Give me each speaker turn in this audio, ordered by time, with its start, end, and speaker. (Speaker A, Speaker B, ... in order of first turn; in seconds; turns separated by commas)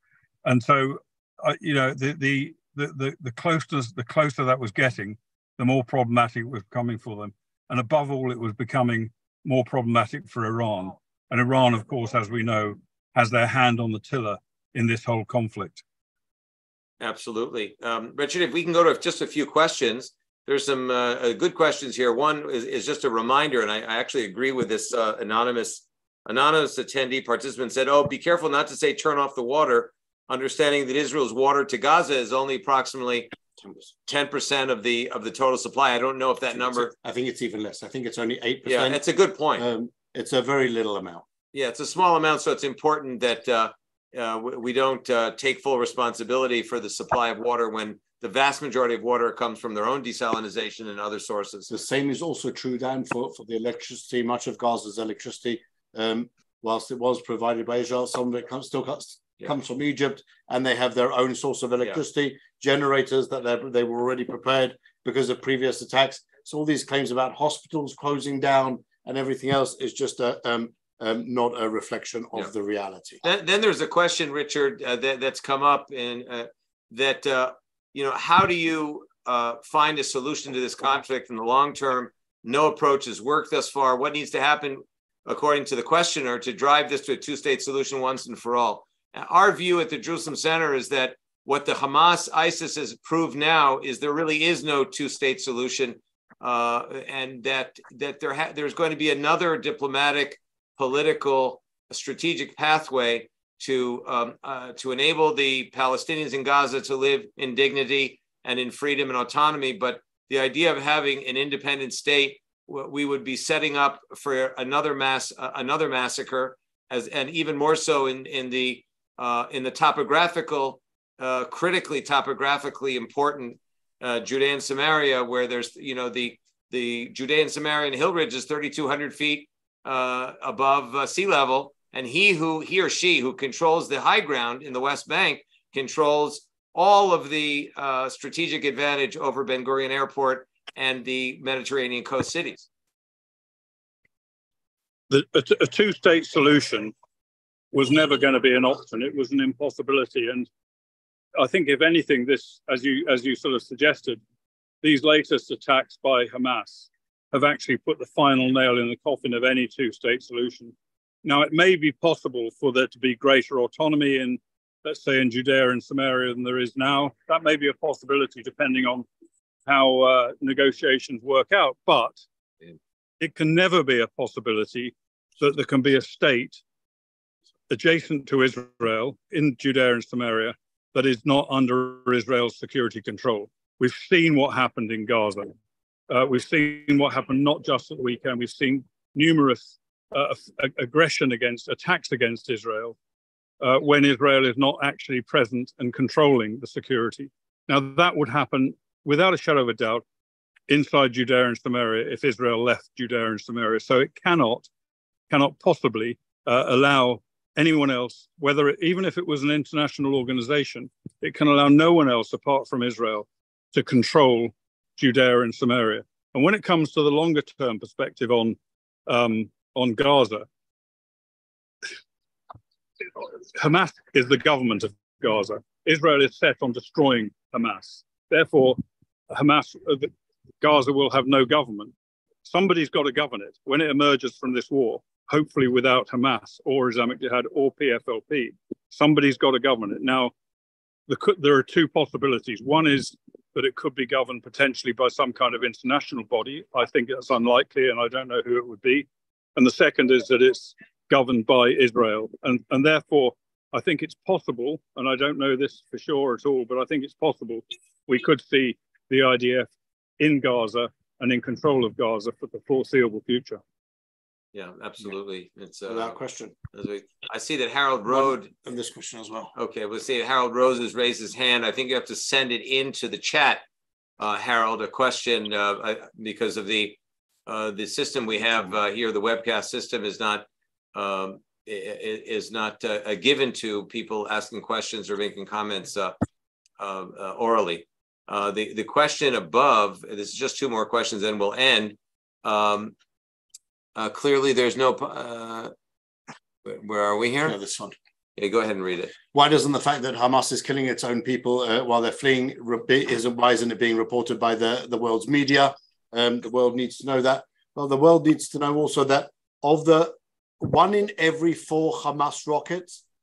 Speaker A: 0.4-15.8, Speaker B: 17.0-33.3, Speaker C: 33.6-33.9, Speaker B: 34.0-36.9, Speaker C: 36.8-39.0, Speaker B: 38.6-39.6, Speaker C: 39.6-41.2, Speaker B: 41.5-51.7, Speaker C: 51.7-73.2, Speaker B: 73.2-142.7, Speaker A: 145.1-146.9, Speaker A: 147.7-150.5, Speaker A: 151.4-154.2, Speaker A: 154.8-169.1, Speaker A: 169.7-172.2, Speaker A: 173.2-176.6, Speaker A: 177.7-185.5, Speaker A: 186.1-192.9, Speaker A: 193.6-200.0, Speaker A: 200.7-204.7, Speaker A: 205.3-220.5, Speaker A: 223.1-228.8, Speaker A: 229.3-231.9, Speaker A: 232.4-240.3, Speaker A: 241.1-263.6, Speaker B: 264.5-266.2, Speaker C: 265.9-266.5, Speaker B: 266.7-268.5, Speaker C: 268.1-269.5, Speaker B: 269.5-273.6, Speaker B: 274.2-286.1, Speaker B: 286.8-292.9, Speaker B: 293.9-295.7, Speaker B: 296.6-297.6, Speaker C: 297.4-297.9, Speaker B: 298.4-299.1, Speaker C: 299.3-313.0